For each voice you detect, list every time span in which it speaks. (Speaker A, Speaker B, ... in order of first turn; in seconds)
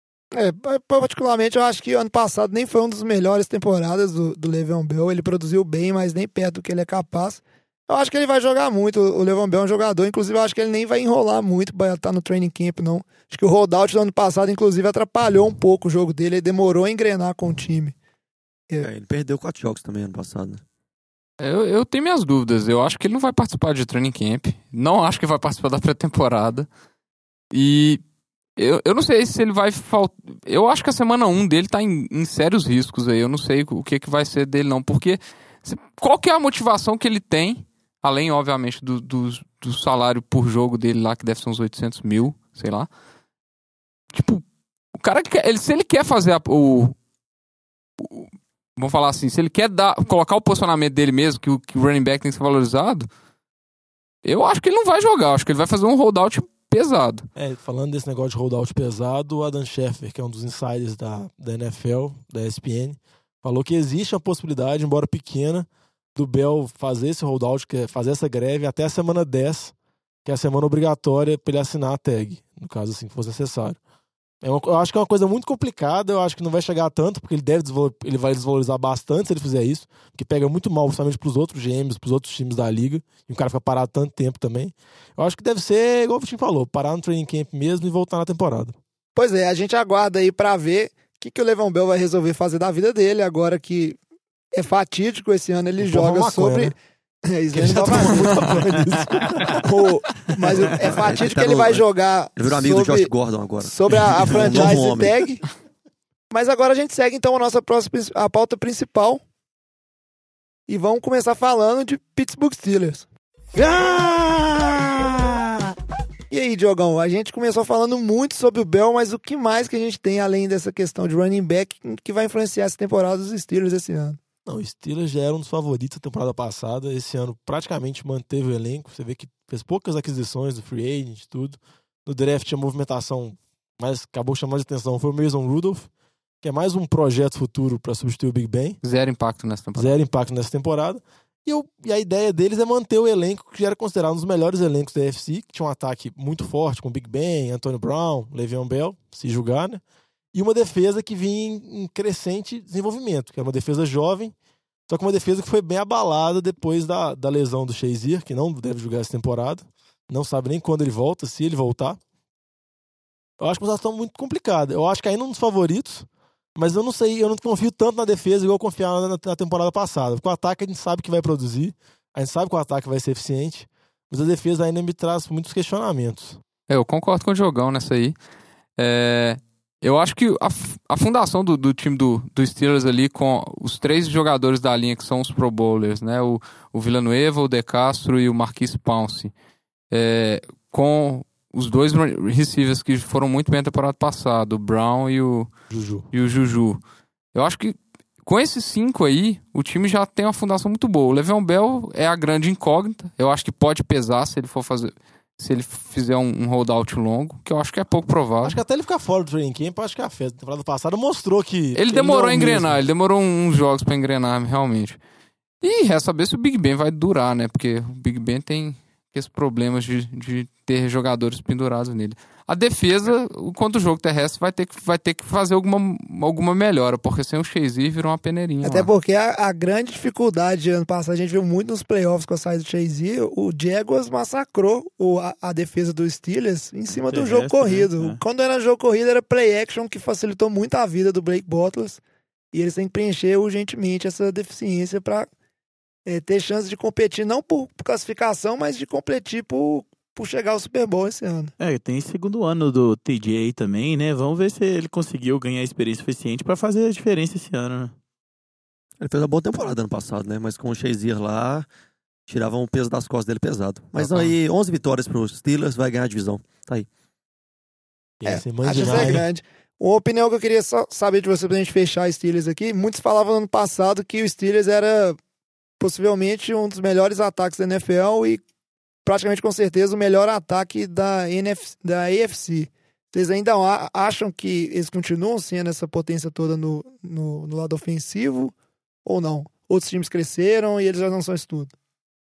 Speaker A: 0.3-17.9, 89.1-94.0, 94.5-96.7, 97.3-98.6, 99.5-105.4, 106.3-109.2, 110.7-113.0, 116.3-124.2, 228.6-242.0, 242.5-245.3, 246.1-251.5, 268.2-275.2, 275.8-278.4, 279.0-291.7
Speaker B: 18.8-20.6, 100.8-101.8, 102.3-105.1, 259.0-261.7, 262.3-266.9
Speaker C: 21.4-26.7, 27.5-28.0, 28.6-42.9, 44.1-44.4, 45.0-47.0, 48.0-53.1, 54.2-57.2, 138.8-139.9, 176.7-178.2, 178.8-189.3, 189.9-195.5, 196.1-196.8, 197.3-208.6, 211.7-215.0, 215.6-228.9
Speaker D: 57.4-69.7, 70.2-73.8, 74.4-88.8, 95.8-96.7, 97.5-99.6, 124.5-135.9, 136.4-138.8, 139.8-149.8, 150.3-154.3, 154.9-162.0, 163.4-176.4, 195.7-196.1, 208.4-212.8, 268.2-269.2
Speaker E: 113.5-115.7, 237.0-238.2, 251.6-257.9, 264.0-264.3